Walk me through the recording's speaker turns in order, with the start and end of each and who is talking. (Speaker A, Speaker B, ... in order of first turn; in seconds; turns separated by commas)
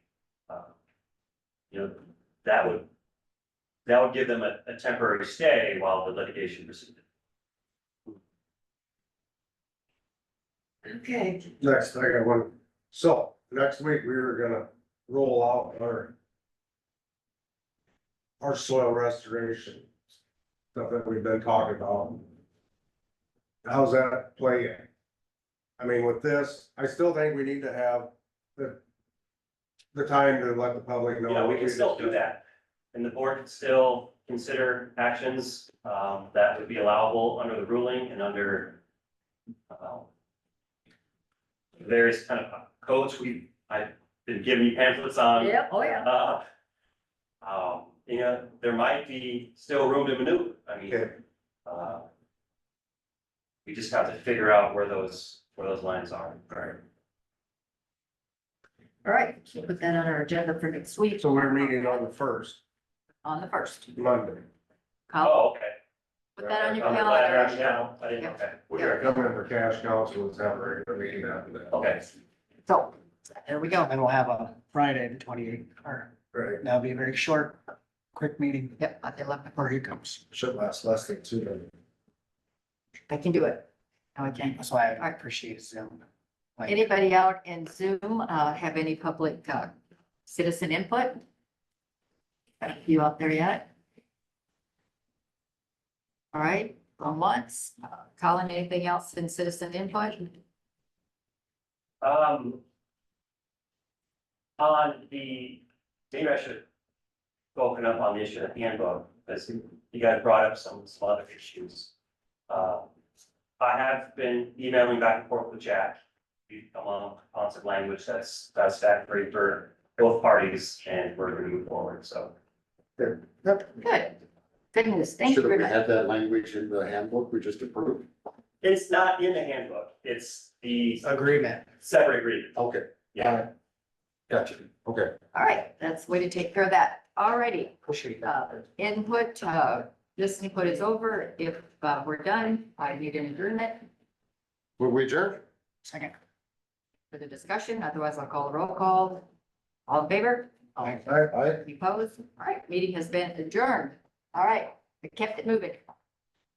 Speaker A: 1.7-2.9, Speaker A: 3.9-7.0, Speaker B: 10.8-11.5, Speaker C: 11.6-16.1, Speaker C: 18.4-19.9, Speaker C: 20.7-22.3, Speaker C: 23.6-24.9, Speaker C: 25.8-28.8, Speaker C: 29.9-32.2, Speaker A: 31.2-38.8, Speaker A: 39.7-40.1, Speaker A: 41.8-46.4, Speaker B: 45.4-46.0, Speaker A: 47.4-52.0, Speaker A: 53.6-56.8, Speaker B: 59.0-62.1, Speaker C: 61.2-62.6, Speaker B: 63.2-63.9, Speaker C: 63.9-64.4, Speaker B: 65.1-65.4, Speaker A: 65.2-65.7, Speaker B: 66.4-69.1, Speaker C: 66.4-67.9, Speaker A: 66.8-68.6, Speaker C: 68.7-71.8, Speaker A: 71.7-72.1, Speaker B: 72.7-73.8, Speaker D: 73.7-76.1, Speaker C: 76.3-76.6, Speaker D: 76.6-77.6, Speaker D: 78.1-78.8, Speaker B: 78.8-79.6, Speaker D: 79.5-80.2, Speaker C: 80.3-81.7, Speaker B: 83.1-85.1, Speaker D: 84.6-86.0, Speaker B: 86.7-89.7, Speaker B: 90.2-91.2, Speaker B: 92.6-93.7, Speaker B: 96.3-100.3, Speaker A: 102.0-102.6, Speaker A: 104.6-106.6, Speaker A: 107.5-111.9, Speaker A: 112.5-112.8, Speaker A: 113.6-116.0, Speaker A: 116.5-122.3, Speaker B: 123.8-124.1, Speaker B: 124.7-125.8, Speaker E: 125.2-128.1, Speaker A: 128.6-131.1, Speaker D: 131.0-131.6, Speaker A: 131.8-132.6, Speaker E: 132.6-133.3, Speaker A: 133.1-133.4, Speaker E: 134.3-135.1, Speaker B: 135.3-143.8, Speaker D: 137.9-138.2, Speaker E: 144.8-145.4, Speaker D: 145.8-146.1, Speaker B: 147.1-149.2, Speaker B: 149.9-150.9, Speaker D: 150.8-151.0, Speaker E: 151.0-151.6, Speaker B: 151.6-155.8